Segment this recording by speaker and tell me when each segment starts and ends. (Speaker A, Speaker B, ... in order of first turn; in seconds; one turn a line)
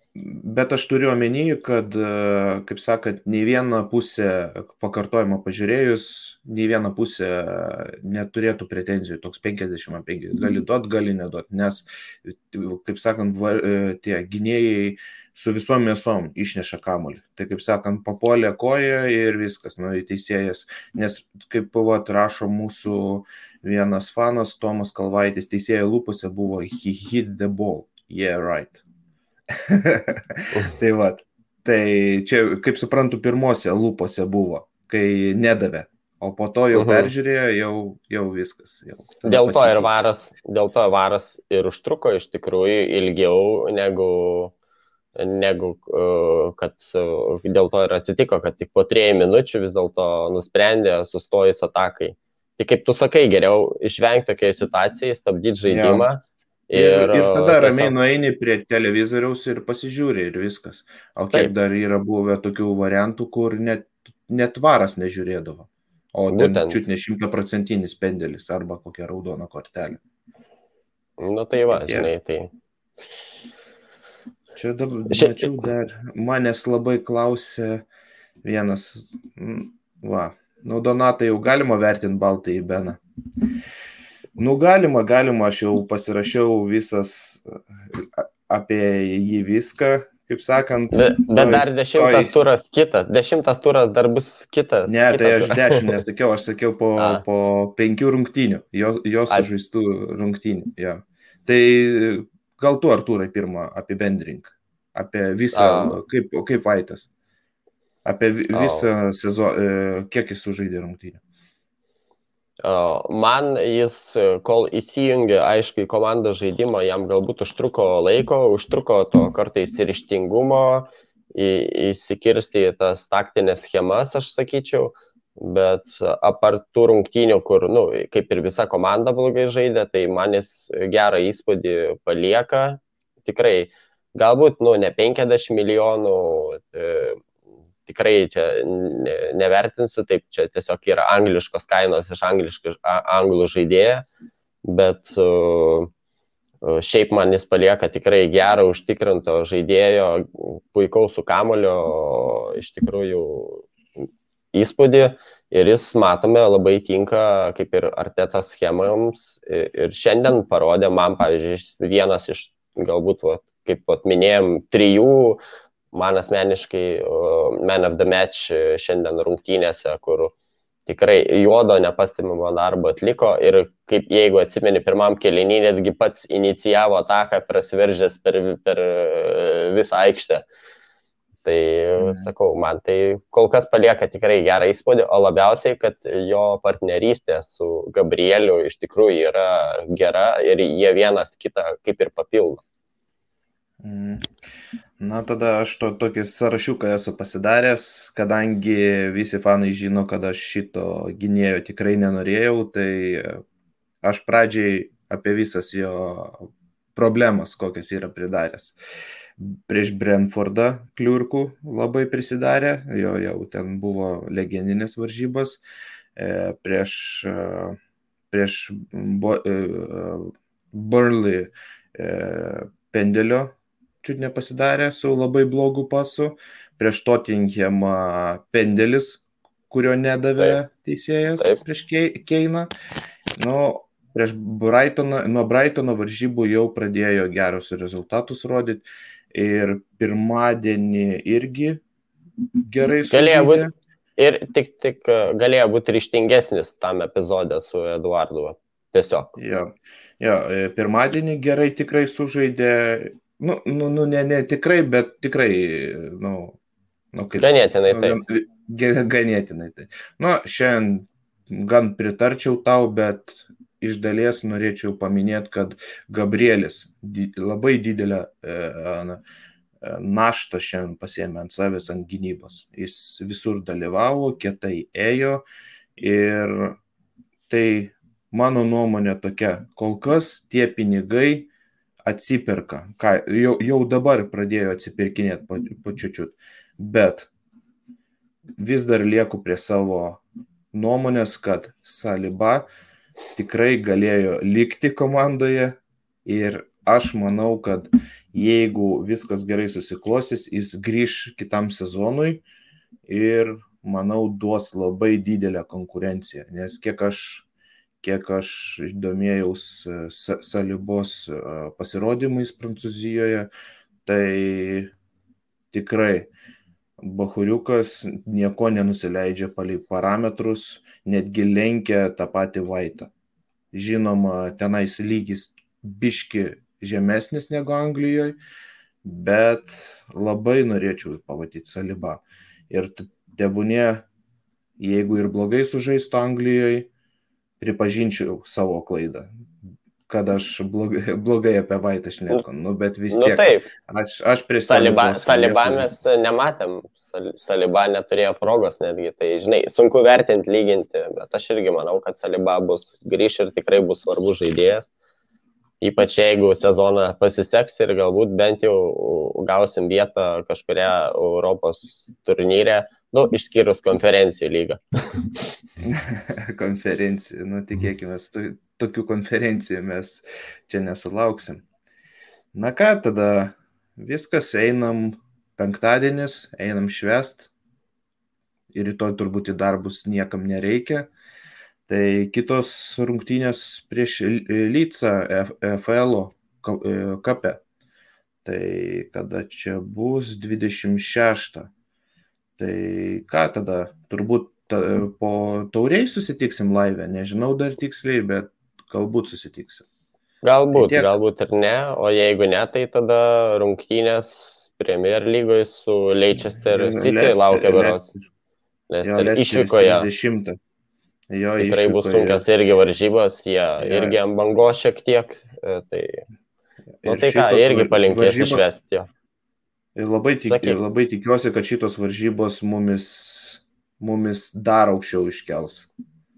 Speaker A: 0.1-28.8
Speaker A: 29.5-39.9
Speaker B: 36.7-37.1
Speaker B: 39.2-44.5
Speaker B: 45.1-57.9
Speaker A: 55.7-56.0
Speaker A: 56.7-70.0
Speaker B: 66.3-66.8
Speaker B: 71.2-72.5
Speaker A: 71.6-72.1
Speaker A: 74.5-77.8
Speaker B: 75.1-75.6
Speaker A: 78.4-83.0
Speaker A: 84.4-92.3
Speaker B: 90.9-96.0
Speaker A: 94.8-107.1
Speaker B: 97.0-97.2
Speaker B: 105.5-106.0
Speaker A: 108.0-111.2
Speaker B: 108.5-108.9
Speaker B: 112.6-137.2
Speaker B: 137.8-144.1
Speaker B: 144.6-145.9
Speaker B: 146.6-153.7
Speaker B: 154.5-165.4
Speaker B: 165.9-170.3
Speaker B: 170.9-180.4
Speaker B: 181.4-192.6
Speaker A: 182.0-182.3
Speaker A: 193.8-194.3
Speaker A: 195.0-203.4
Speaker A: 204.0-208.8
Speaker A: 209.4-215.6
Speaker A: 216.2-217.8
Speaker A: 218.3-232.7
Speaker A: 233.3-241.8
Speaker A: 242.7-243.7
Speaker B: 243.1-249.3
Speaker A: 249.3-256.6
Speaker A: 257.1-269.2
Speaker B: 257.4-258.2
Speaker A: 269.8-275.4
Speaker A: 276.0-276.8
Speaker A: 277.5-281.5
Speaker A: 282.0-287.3
Speaker A: 288.6-290.2
Speaker A: 290.7-292.7
Speaker A: 293.4-302.4
Speaker A: 303.1-307.4
Speaker A: 308.0-313.5
Speaker A: 314.0-314.9
Speaker A: 315.7-316.3
Speaker A: 317.0-323.1
Speaker A: 323.7-328.4
Speaker A: 329.0-334.0
Speaker A: 334.8-336.9
Speaker A: 337.6-339.3
Speaker A: 340.1-345.9
Speaker B: 343.1-343.7
Speaker B: 344.7-354.9
Speaker B: 355.8-364.8
Speaker A: 365.8-371.6
Speaker A: 372.5-377.5
Speaker A: 378.7-381.1
Speaker A: 381.9-387.6
Speaker A: 388.4-391.7
Speaker A: 392.6-399.8
Speaker B: 400.4-408.1
Speaker A: 400.7-401.1
Speaker A: 406.5-408.2
Speaker B: 408.9-410.1
Speaker A: 409.0-410.6
Speaker A: 411.3-412.4
Speaker B: 411.6-416.2
Speaker A: 413.8-414.1
Speaker A: 417.0-418.7
Speaker B: 417.0-419.1
Speaker A: 419.9-425.9
Speaker B: 420.5-420.8